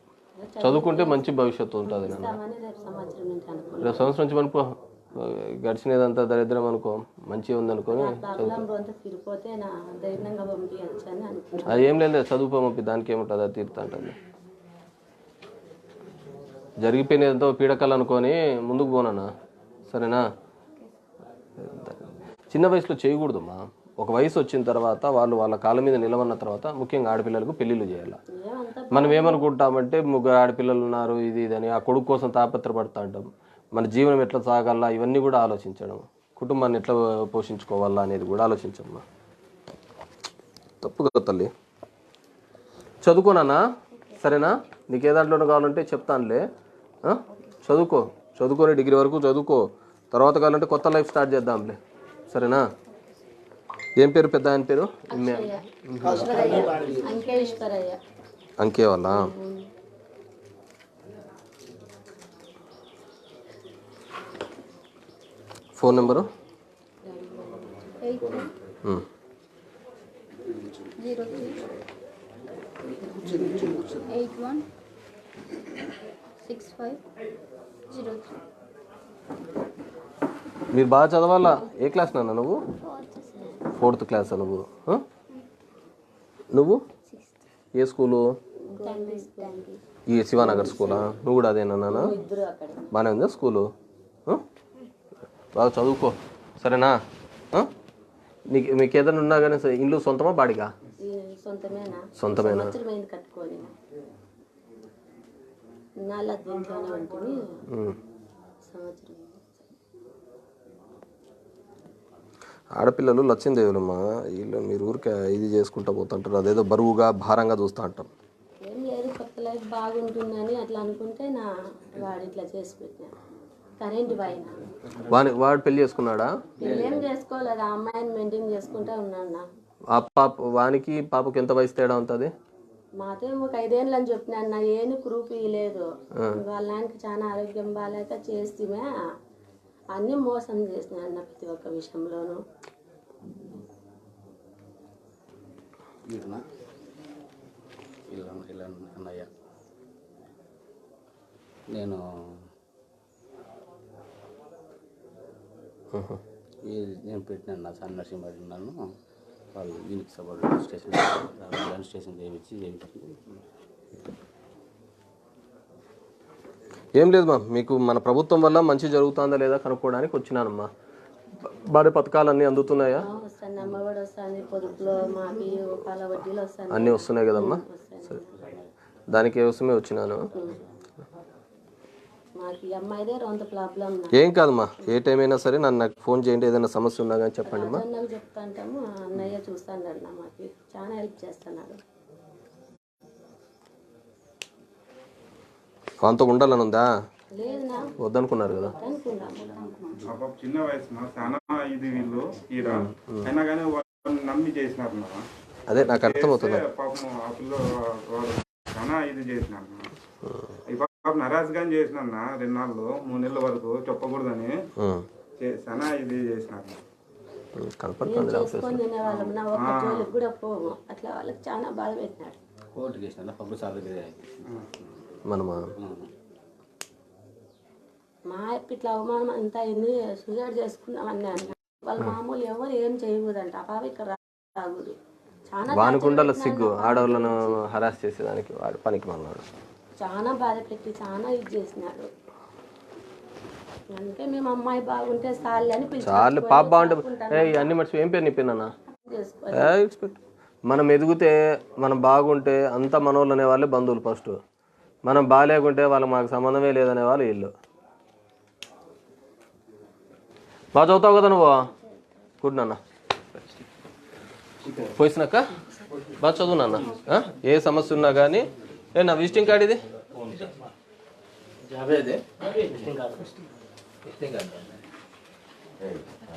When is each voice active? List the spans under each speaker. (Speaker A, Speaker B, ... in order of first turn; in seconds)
Speaker A: 0.4-1.3, 1.9-4.1, 7.9-11.8, 28.3-29.4, 55.1-58.0, 59.1-59.7, 67.0-67.9, 88.7-89.7, 90.4-91.0, 91.9-92.9, 101.0-103.7, 106.0-107.4, 108.7-109.7, 118.6-123.1, 123.8-124.5, 126.6-129.4, 133.0-138.9, 139.9-142.4, 173.0-178.3, 182.4-184.1, 187.4-191.8, 197.3-197.9, 198.5-199.7, 218.0-222.4, 228.3-234.9, 235.5-237.6, 240.0-242.1, 243.9-247.7, 249.0-249.8
Speaker B: 0.6-2.4, 3.8-8.6, 11.7-14.1, 16.8-19.3, 19.9-20.2, 21.6-28.2, 28.9-39.0, 40.8-41.5, 43.0-43.6, 44.2-46.4, 47.0-51.8, 52.3-52.6, 54.0-56.4, 58.6-59.3, 65.8-66.2, 80.7-82.6, 83.7-85.0, 86.5-86.8, 87.8-88.3, 90.1-92.1, 92.9-93.7, 95.5-97.0, 98.5-100.7, 102.2-102.7, 107.7-108.0, 112.8-118.1, 125.1-126.3, 129.9-132.3, 155.9-156.2, 167.0-170.7, 171.4-173.1, 176.7-177.6, 179.1-180.2, 184.2-187.8, 196.0-196.9, 198.0-198.8, 202.6-203.3, 205.7-206.6, 210.2-210.5, 214.8-215.1, 217.6-218.8, 225.3-225.7, 235.7-239.4, 246.0-248.7, 249.5-254.4, 255.1-257.5, 260.7-261.6, 262.4-262.8, 264.9-265.5, 266.2-269.8
Speaker C: 44.0-44.3, 56.5-57.6, 68.0-68.5, 71.0-71.6, 73.2-74.7, 76.4-77.0, 77.9-78.3, 82.8-84.3, 87.1-87.5, 88.7-89.8, 199.5-200.0
Speaker D: 73.4-73.9, 126.6-127.0, 146.1-146.4, 148.1-149.3, 151.7-152.0, 156.7-158.8, 159.5-163.3, 178.3-178.7, 222.7-225.2, 225.7-226.1, 274.1-274.6
Speaker E: 200.1-209.9, 210.7-214.5, 215.4-216.8, 219.1-220.1